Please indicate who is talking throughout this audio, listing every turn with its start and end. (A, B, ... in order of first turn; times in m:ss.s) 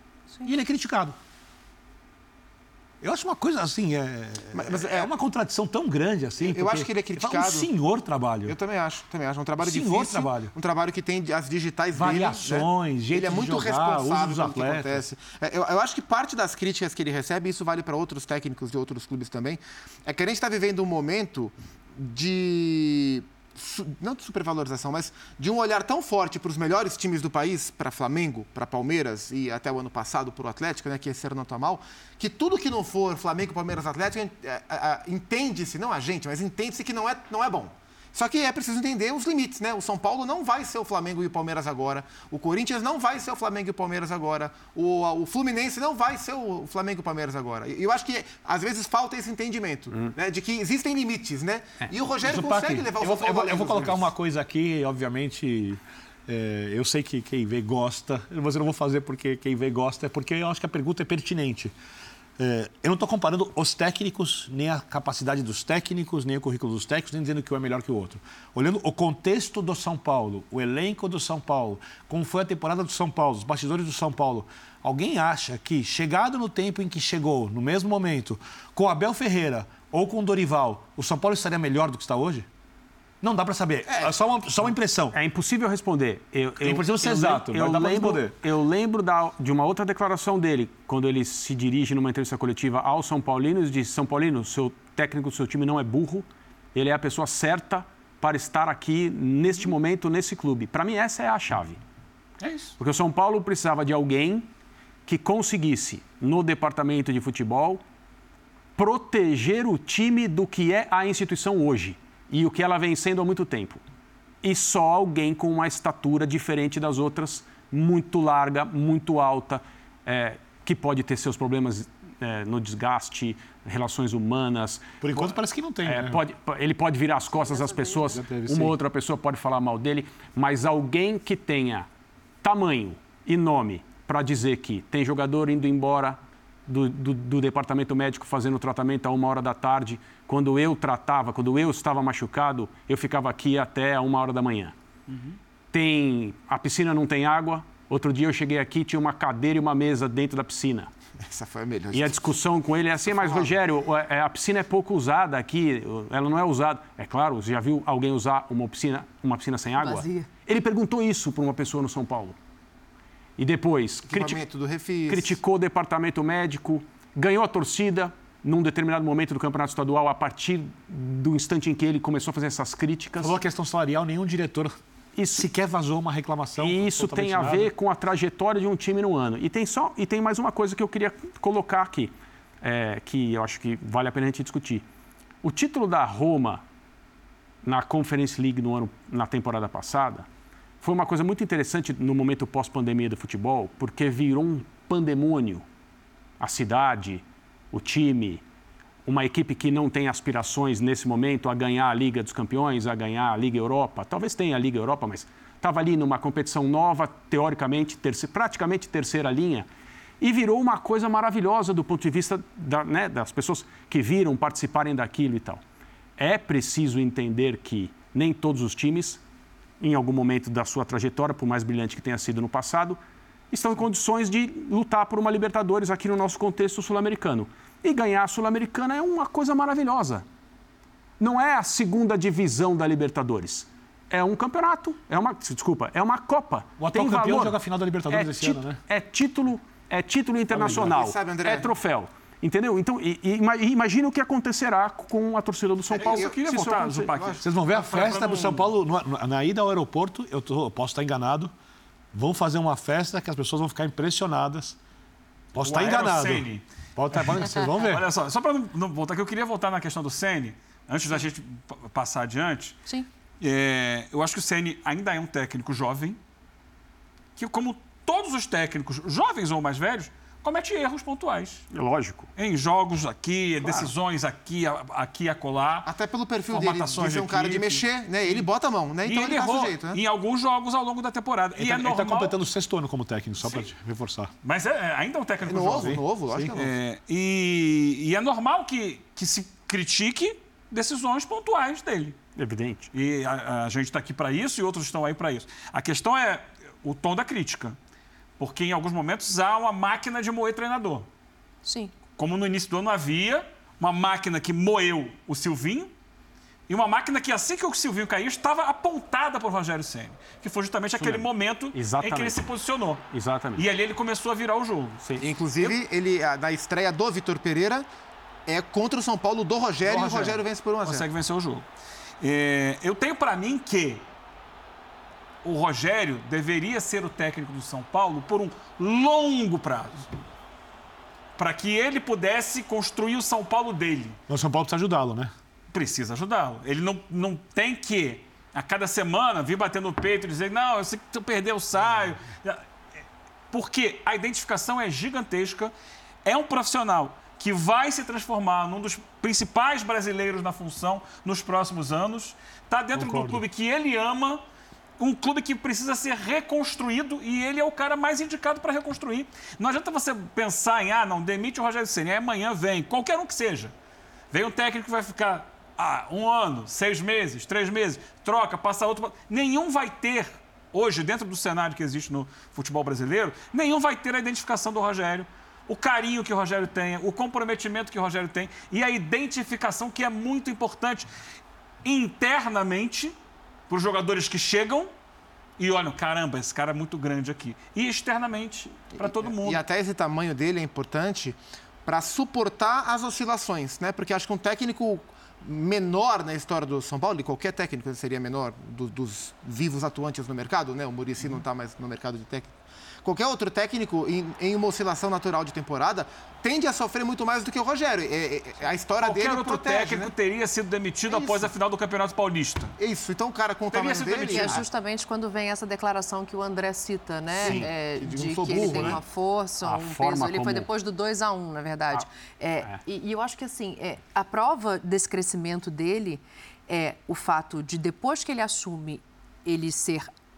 0:00.4-0:01.2 A
0:03.0-0:08.6 A
0:04.5-0:05.1 B
0:06.4-0:07.7 B
0:08.5-0:54.1 B
0:09.6-0:10.5 A
0:11.9-0:15.0 A
0:52.2-1:01.7 A
1:02.4-1:22.5 A
1:23.2-1:25.2 A
1:25.1-1:41.8 C
1:26.6-1:28.4 A
1:42.4-1:42.7 A
1:42.8-1:44.5 C
1:45.1-1:47.8 C
1:48.8-1:53.8 C
1:54.4-2:05.3 C
2:05.0-2:06.2 A
2:05.8-2:11.9 C
2:07.3-2:08.2 D
2:08.1-2:08.8 A
2:12.4-2:24.7 C
2:25.7-2:30.9 C
2:31.2-2:32.3 B
2:31.9-2:42.4 C
2:33.1-2:33.5 B
2:39.8-2:40.3 D
2:43.4-2:44.4 C
2:44.1-2:45.4 B
2:45.1-2:53.4 C
2:53.2-2:54.8 A
2:55.1-2:55.5 C
2:55.3-2:57.7 A
2:56.6-3:04.8 C
3:05.4-3:06.6 C
3:07.6-3:10.3 C
3:10.8-3:15.6 C
3:16.4-3:18.4 C
3:19.0-3:29.7 C
3:30.2-3:35.6 C
3:36.2-3:39.2 C
3:39.8-3:43.0 C
3:43.5-3:50.2 C
3:51.2-3:57.6 C
3:56.8-3:58.8 A
3:58.1-4:07.1 C
4:00.5-4:01.7 B
4:06.0-4:06.3 B
4:06.0-4:08.7 E
4:07.1-4:07.4 B
4:07.4-4:11.5 A
4:12.1-4:14.8 A
4:15.5-4:18.1 A
4:15.6-4:22.8 E
4:23.4-4:26.2 E
4:27.4-4:31.6 E
4:31.7-4:32.3 C
4:32.4-4:35.9 E
4:33.6-4:33.9 B
4:35.9-4:40.0 B
4:36.5-4:38.5 E
4:39.0-4:42.3 E
4:41.6-4:44.3 A
4:44.4-4:46.0 E
4:45.4-4:46.8 B
4:45.6-4:46.5 A
4:46.5-4:52.2 E
4:52.4-4:52.9 C
4:52.9-4:57.8 E
4:58.4-5:01.1 E
5:01.6-5:01.9 D
5:02.2-5:05.9 E
5:06.7-5:15.8 E
5:11.0-5:12.5 C
5:13.1-5:13.7 C
5:15.2-5:17.8 B
5:18.5-5:21.1 B
5:19.8-5:21.7 E
5:22.2-5:24.1 E
5:25.4-5:30.1 E
5:31.4-5:34.2 E
5:34.3-5:35.3 A
5:35.7-5:42.6 E
5:43.5-5:45.7 E
5:46.2-5:54.4 E
5:52.9-5:53.4 A
5:55.0-6:03.7 E
6:04.3-6:21.1 E
6:21.8-6:23.2 E
6:23.7-6:24.9 E
6:25.6-6:29.6 E
6:29.0-6:50.1 B
6:49.0-6:52.7 E
6:51.1-6:51.5 B
6:52.8-6:54.6 B
6:53.7-6:54.6 E
6:54.1-7:10.1 D
6:57.4-6:59.0 B
6:58.6-6:58.9 C
6:59.6-7:00.7 C